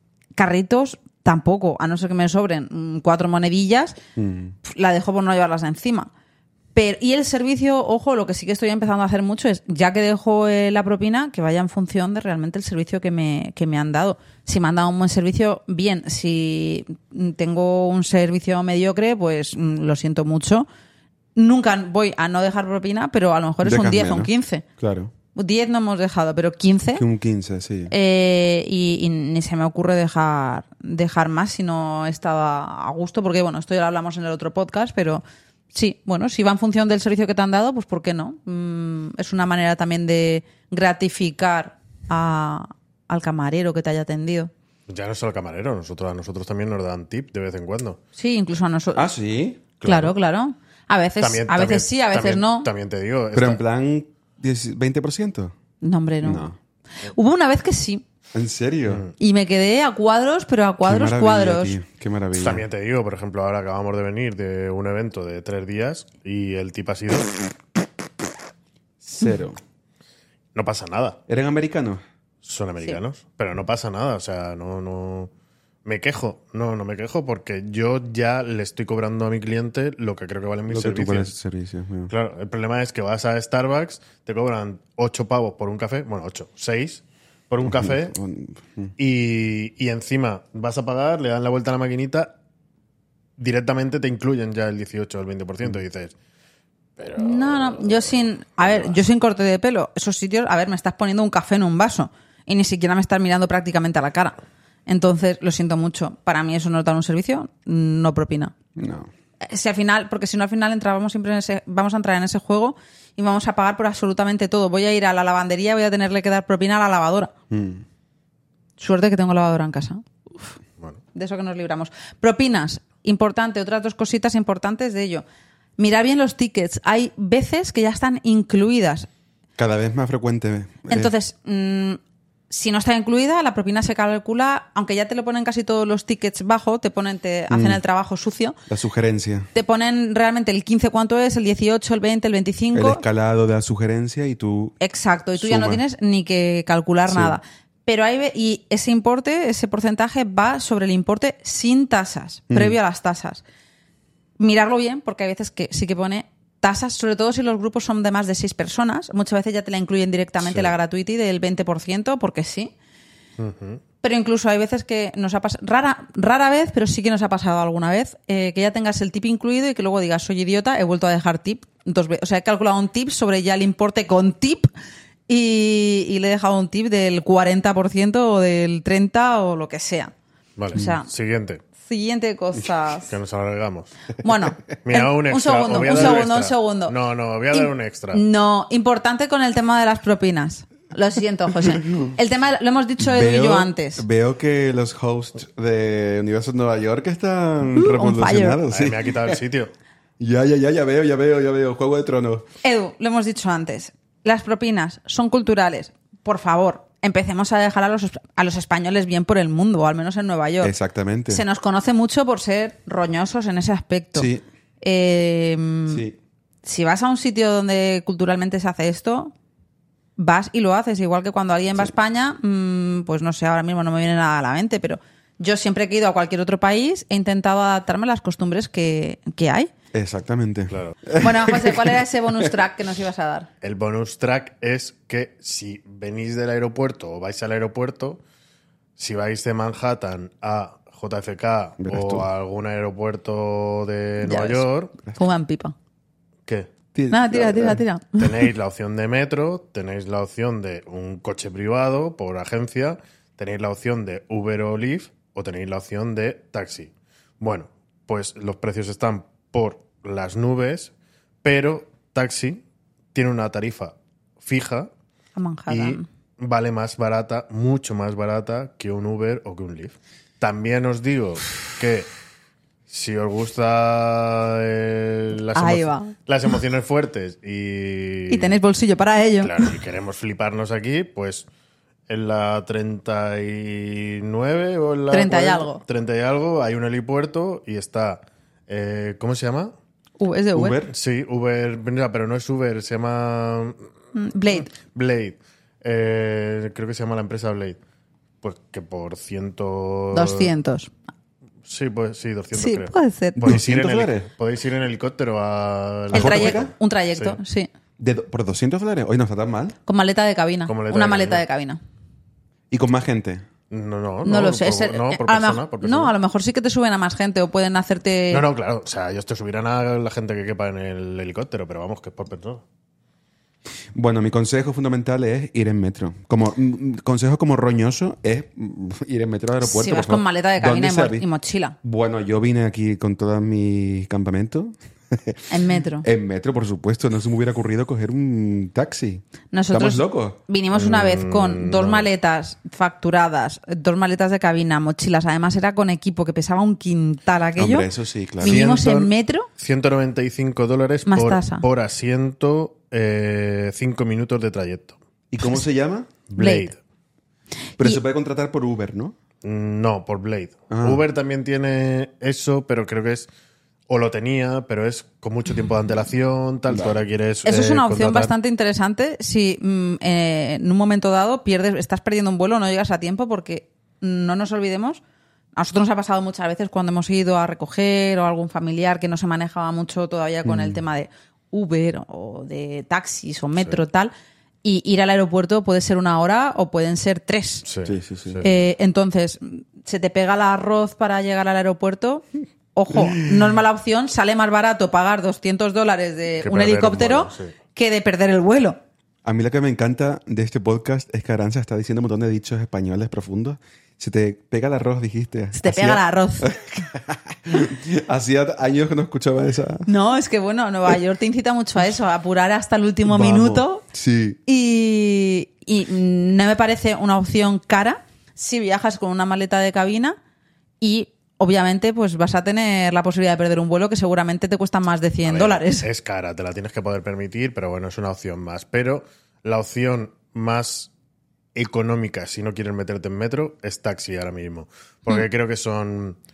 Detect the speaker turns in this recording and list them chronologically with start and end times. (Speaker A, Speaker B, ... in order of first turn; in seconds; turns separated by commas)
Speaker A: 0.4-4.0, Speaker B: 4.2-4.5, Speaker A: 4.6-6.1, Speaker A: 6.8-20.7, Speaker A: 21.4-24.6, Speaker B: 23.6-25.1, Speaker A: 25.4-27.0, Speaker B: 27.0-27.9, Speaker A: 27.9-44.5, Speaker C: 44.9-48.0, Speaker A: 48.2-49.0, Speaker B: 49.0-49.6, Speaker C: 49.8-50.1, Speaker A: 49.8-52.7, Speaker C: 51.2-53.6, Speaker B: 53.3-55.5, Speaker A: 55.8-56.5, Speaker B: 56.2-56.6, Speaker A: 57.0-58.0, Speaker B: 58.3-59.0, Speaker C: 58.9-59.1, Speaker A: 59.2-61.8, Speaker B: 60.8-62.6, Speaker C: 62.4-67.3, Speaker B: 69.0-69.6, Speaker C: 70.5-71.2, Speaker B: 71.3-72.0, Speaker C: 72.4-75.3, Speaker C: 75.8-81.3, Speaker B: 80.7-82.1, Speaker C: 82.1-88.2, Speaker B: 87.7-88.9, Speaker C: 89.0-92.4, Speaker C: 93.4-96.2, Speaker C: 97.0-99.0, Speaker A: 97.2-108.5, Speaker B: 108.8-109.1, Speaker A: 109.4-117.3, Speaker B: 117.5-117.8, Speaker A: 118.8-120.5, Speaker A: 121.2-125.2, Speaker A: 125.8-129.1, Speaker B: 129.6-131.1, Speaker A: 130.9-138.6, Speaker B: 137.5-137.8, Speaker B: 138.7-139.5, Speaker A: 139.6-143.0, Speaker B: 142.7-144.7, Speaker A: 144.8-153.4, Speaker B: 145.4-145.8, Speaker B: 147.1-147.4, Speaker B: 152.5-152.8, Speaker A: 154.4-162.7, Speaker C: 160.4-160.7, Speaker C: 163.4-163.8, Speaker A: 164.0-174.7, Speaker A: 175.3-180.1, Speaker C: 180.6-181.6, Speaker A: 180.7-181.1, Speaker A: 181.8-183.2, Speaker C: 183.1-183.9, Speaker A: 184.2-187.0, Speaker C: 184.8-188.2, Speaker A: 187.5-194.0, Speaker B: 191.8-192.1, Speaker B: 193.0-199.4, Speaker A: 197.7-198.6, Speaker C: 198.7-199.7, Speaker B: 200.2-202.5, Speaker A: 202.6-210.7, Speaker B: 210.6-211.4, Speaker A: 211.3-214.3, Speaker B: 214.2-214.4, Speaker A: 214.8-216.0, Speaker B: 215.9-216.2, Speaker A: 216.6-219.3, Speaker A: 220.2-229.7, Speaker B: 229.9-232.4, Speaker C: 230.7-231.0, Speaker A: 231.2-233.5, Speaker C: 233.6-238.2, Speaker C: 239.0-244.9, Speaker B: 241.8-242.3, Speaker A: 244.2-245.8, Speaker B: 246.9-247.8, Speaker A: 247.1-248.3, Speaker C: 248.2-260.9, Speaker C: 261.4-262.6, Speaker C: 263.1-264.9, Speaker A: 265.4-266.1, Speaker C: 265.7-272.1, Speaker C: 272.9-278.6, Speaker A: 275.5-276.1, Speaker A: 278.3-279.7, Speaker C: 279.4-281.5, Speaker C: 282.1-289.7, Speaker A: 285.1-285.8, Speaker A: 290.2-290.8, Speaker B: 290.6-290.9, Speaker C: 290.9-293.9, Speaker A: 294.1-294.7, Speaker C: 294.5-297.8, Speaker C: 298.4-300.5, Speaker A: 300.1-300.9, Speaker C: 301.6-307.4, Speaker A: 302.5-303.6, Speaker B: 303.4-304.3, Speaker A: 306.1-307.7, Speaker B: 306.1-306.7, Speaker B: 308.0-309.8, Speaker A: 309.9-311.8, Speaker C: 310.7-311.4, Speaker B: 312.7-313.5, Speaker C: 313.7-316.1, Speaker A: 314.2-318.4, Speaker C: 318.3-322.6, Speaker B: 323.9-331.2, Speaker A: 329.6-331.8, Speaker B: 331.8-335.5, Speaker A: 335.5-336.1, Speaker B: 336.0-340.4, Speaker A: 339.5-347.9, Speaker C: 340.7-342.1, Speaker B: 347.6-348.6, Speaker A: 348.4-349.5, Speaker C: 348.4-355.0, Speaker A: 351.1-351.6, Speaker B: 355.3-356.1, Speaker C: 356.3-356.8, Speaker A: 356.4-356.7, Speaker B: 357.8-359.1, Speaker C: 359.4-363.3, Speaker B: 360.7-361.0, Speaker C: 363.9-368.3, Speaker B: 366.7-367.0, Speaker A: 367.4-375.0, Speaker A: 375.6-384.1, Speaker B: 380.4-380.8, Speaker A: 384.6-387.6, Speaker C: 387.6-388.6, Speaker B: 387.9-388.4, Speaker A: 388.4-398.8, Speaker C: 396.4-397.5, Speaker B: 399.2-409.9, Speaker A: 405.6-406.5, Speaker A: 409.9-413.8, Speaker B: 413.1-414.4, Speaker A: 414.5-420.2, Speaker A: 420.8-425.9, Speaker C: 425.2-430.9, Speaker C: 431.6-436.2